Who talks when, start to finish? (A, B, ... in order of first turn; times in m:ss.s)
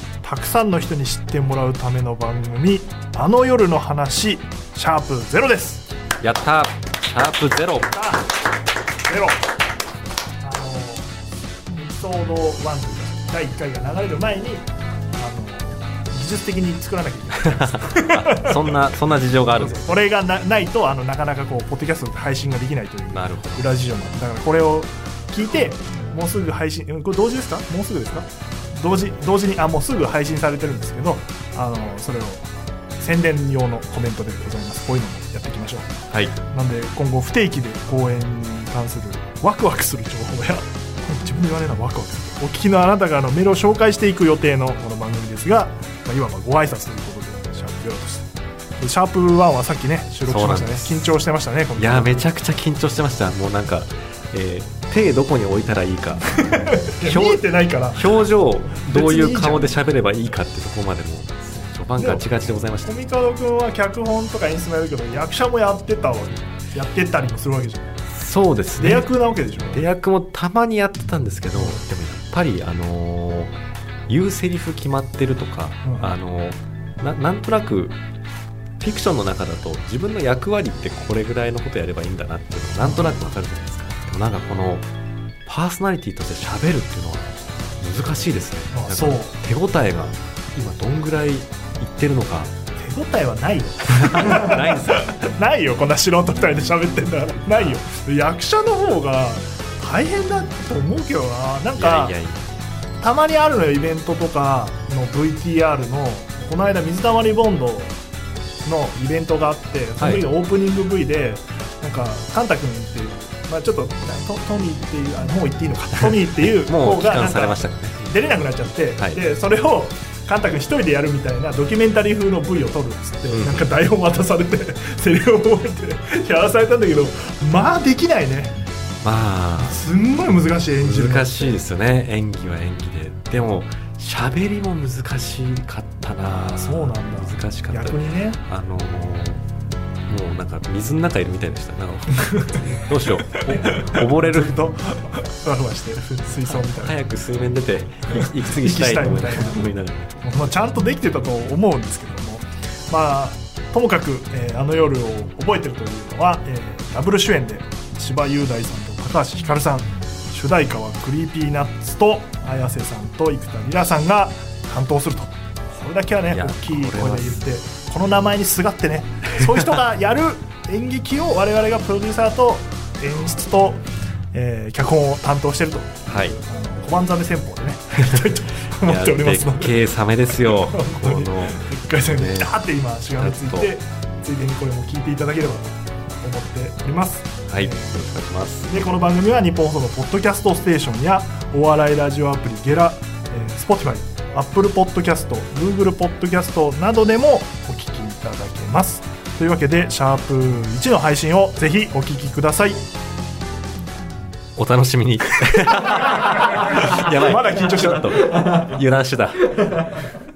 0:00.2-0:05.9 A
0:06.2-0:08.0 B
0:07.9-0:08.3 A
0:09.0-0:09.4 A
0:10.4-0:11.1 A
0:11.7-0:18.8 A
0:17.5-0:20.0 B
0:19.6-0:52.2 A
0:23.1-0:23.7 B
0:36.1-0:36.4 B
0:50.2-0:51.1 B
0:51.8-1:02.9 B
0:56.4-0:59.7 A
1:02.0-1:02.2 A
1:02.8-1:08.0 A
1:08.1-1:09.1 B
1:08.8-1:09.8 A
1:09.7-1:13.5 B
1:11.5-1:11.8 A
1:14.1-1:18.0 B
1:15.8-1:16.1 A
1:18.8-1:24.9 B
1:22.8-1:23.2 A
1:25.4-1:32.5 B
1:28.7-1:29.3 A
1:32.8-1:42.2 A
1:33.9-1:35.2 B
1:41.7-1:42.4 B
1:43.0-1:47.9 A
1:48.6-2:08.6 A
1:50.0-1:50.2 B
1:56.2-1:58.1 B
2:03.3-2:03.7 B
2:09.0-2:09.8 B
2:09.6-2:11.6 A
2:10.8-2:19.4 B
2:16.5-2:18.4 A
2:20.1-2:24.6 B
2:22.2-2:27.0 A
2:26.5-2:30.2 B
2:28.1-2:29.7 A
2:30.2-3:08.0 A
2:46.3-2:47.4 B
2:56.1-2:56.3 B
2:58.8-3:02.6 B
3:03.2-3:03.7 B
3:07.5-3:08.7 B
3:08.6-3:22.8 A
3:24.6-3:29.9 B
3:25.9-3:28.5 A